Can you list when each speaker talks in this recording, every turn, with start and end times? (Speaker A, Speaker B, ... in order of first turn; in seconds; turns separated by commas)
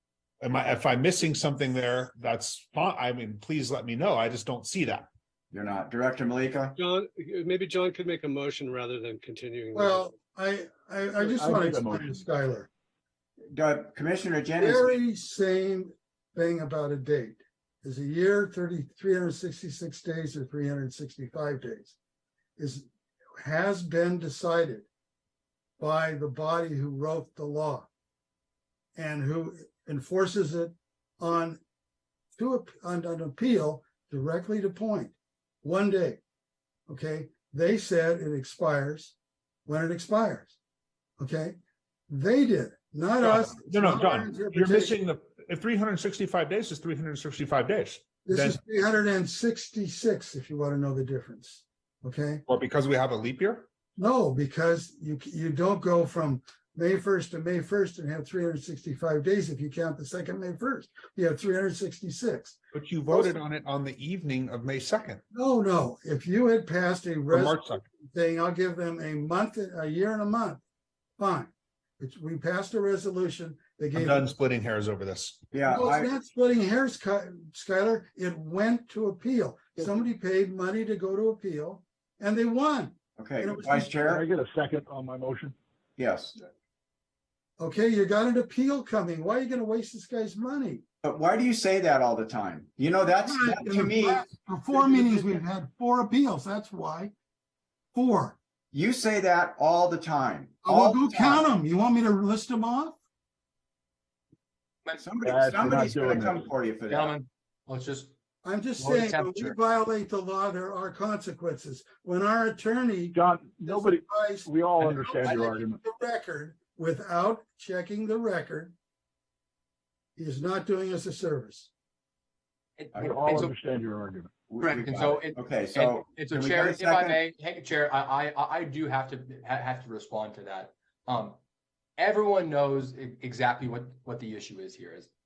Speaker A: 0.4-5.1, Speaker B: 5.5-6.8, Speaker C: 6.8-10.1, Speaker D: 9.8-12.7, Speaker E: 11.2-12.2, Speaker B: 13.5-14.9, Speaker D: 14.6-21.9, Speaker D: 22.6-22.9, Speaker D: 23.4-24.9, Speaker D: 25.8-27.9, Speaker D: 29.0-31.6, Speaker D: 32.4-36.2, Speaker D: 36.9-40.5, Speaker D: 41.2-41.6, Speaker D: 42.1-45.0, Speaker A: 43.2-48.6, Speaker D: 48.3-52.4, Speaker A: 52.5-53.7, Speaker D: 54.0-63.4, Speaker A: 62.7-65.2, Speaker D: 65.3-70.6, Speaker A: 67.3-67.8, Speaker D: 71.2-74.3, Speaker A: 74.0-75.4, Speaker B: 75.5-76.1, Speaker D: 75.6-83.9, Speaker B: 83.2-84.3, Speaker E: 84.0-85.5, Speaker B: 86.0-86.4, Speaker D: 87.6-90.8, Speaker B: 91.0-94.3, Speaker D: 93.2-97.1, Speaker D: 97.9-98.4, Speaker B: 98.7-101.5, Speaker D: 100.6-103.0, Speaker B: 105.0-107.1, Speaker E: 105.2-106.5, Speaker F: 106.9-108.1, Speaker D: 108.4-118.7, Speaker F: 108.8-109.6, Speaker E: 113.1-115.8, Speaker D: 120.2-121.7, Speaker F: 122.8-123.5, Speaker E: 123.0-124.3, Speaker B: 124.5-127.2, Speaker F: 124.6-131.4, Speaker F: 132.0-135.1